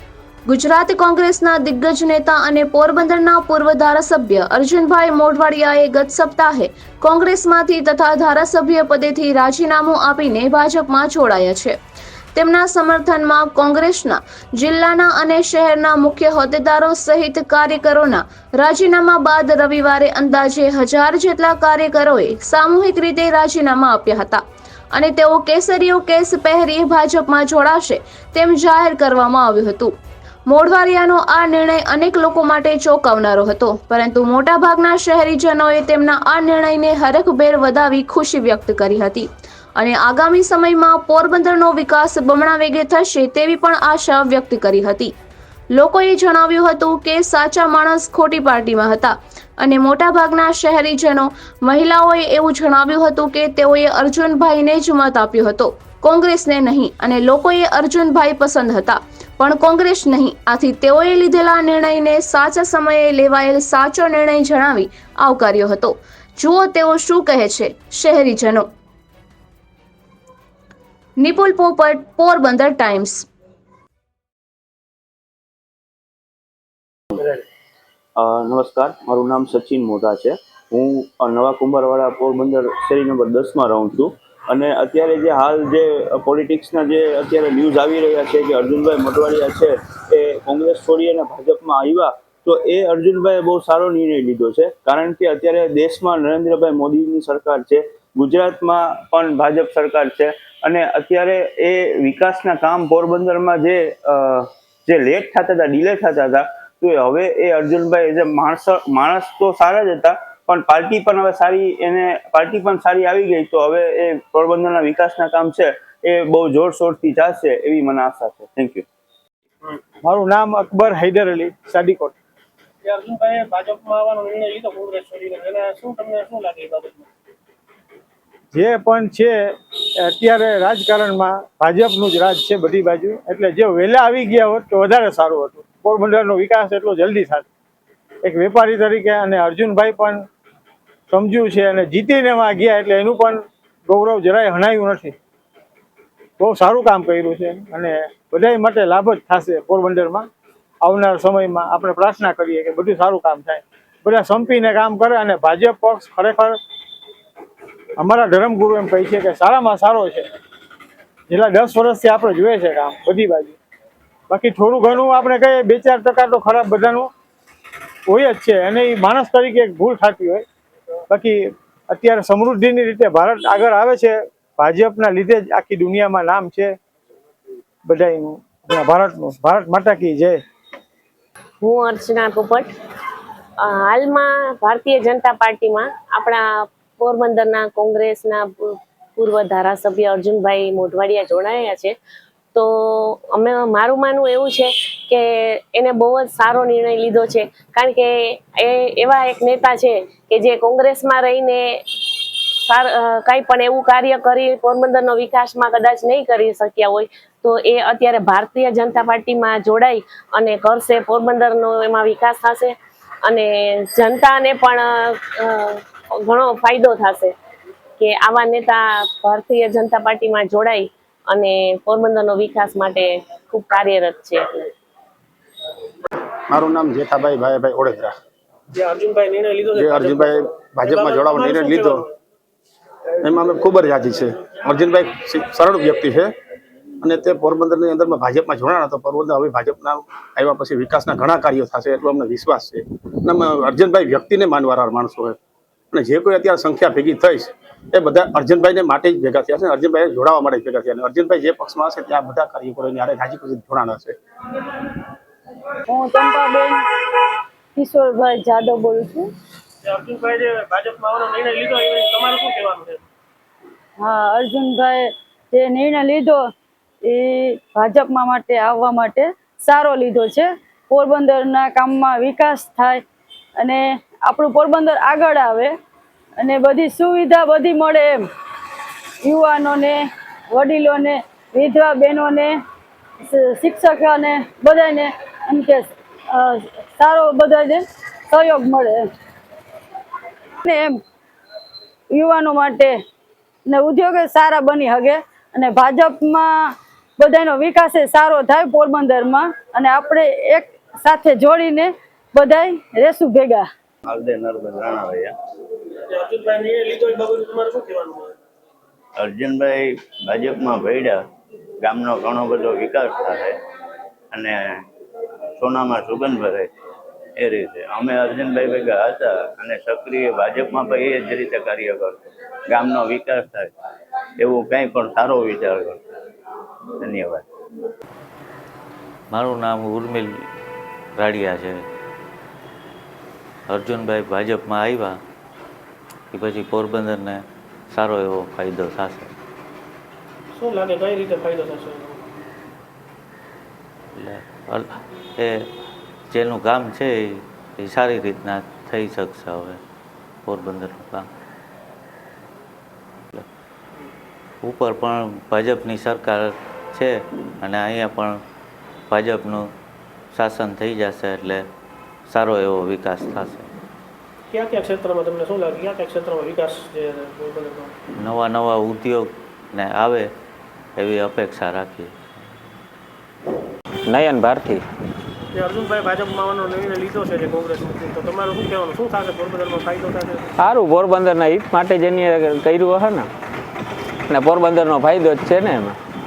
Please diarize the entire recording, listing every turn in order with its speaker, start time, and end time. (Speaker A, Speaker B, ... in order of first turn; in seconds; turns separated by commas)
Speaker A: 0.5-11.8, Speaker A: 12.3-24.4, Speaker A: 24.9-29.9, Speaker A: 30.5-45.1, Speaker A: 45.7-68.7, Speaker A: 71.2-73.3, Speaker B: 78.2-118.8, Speaker C: 120.0-122.1, Speaker D: 122.8-127.0, Speaker C: 128.5-129.4, Speaker C: 130.0-137.4, Speaker C: 138.2-140.2, Speaker C: 141.1-145.1, Speaker C: 146.4-150.3, Speaker C: 150.8-156.6, Speaker C: 158.0-160.3, Speaker C: 161.3-163.6, Speaker C: 164.3-167.1, Speaker C: 168.1-170.4, Speaker C: 171.1-171.4, Speaker C: 171.9-176.7, Speaker C: 177.8-180.4, Speaker E: 181.6-182.7, Speaker E: 183.6-191.9, Speaker E: 192.5-217.3, Speaker E: 218.0-224.7, Speaker F: 226.5-228.1, Speaker D: 228.7-230.3, Speaker F: 229.8-232.1, Speaker D: 230.8-232.1, Speaker F: 233.2-236.3, Speaker F: 237.0-245.4, Speaker F: 245.9-254.2, Speaker G: 255.9-256.8, Speaker G: 257.7-259.3, Speaker D: 259.8-263.0, Speaker G: 264.0-266.4, Speaker G: 267.0-273.0, Speaker G: 273.6-275.7, Speaker G: 276.4-278.3, Speaker G: 279.2-282.6, Speaker G: 283.2-289.1, Speaker G: 290.6-291.0, Speaker G: 292.1-293.0, Speaker G: 293.6-303.6, Speaker H: 304.1-305.3, Speaker D: 306.1-308.3, Speaker H: 309.2-311.2, Speaker H: 311.8-313.5, Speaker H: 315.6-316.7, Speaker H: 317.4-322.2, Speaker H: 322.7-323.7, Speaker H: 324.4-326.0, Speaker H: 327.0-327.4, Speaker I: 329.3-330.3, Speaker I: 331.2-331.8, Speaker I: 333.7-335.2, Speaker I: 336.3-339.3, Speaker D: 340.6-342.2, Speaker I: 344.1-345.7, Speaker I: 346.3-349.8, Speaker I: 350.4-351.3, Speaker I: 354.6-358.4, Speaker I: 359.1-359.7, Speaker I: 360.3-361.7, Speaker I: 362.3-363.7, Speaker D: 364.5-367.9, Speaker I: 368.2-370.3, Speaker I: 371.0-372.1, Speaker J: 374.1-374.9, Speaker D: 375.5-380.6, Speaker J: 380.6-383.3, Speaker J: 384.3-386.0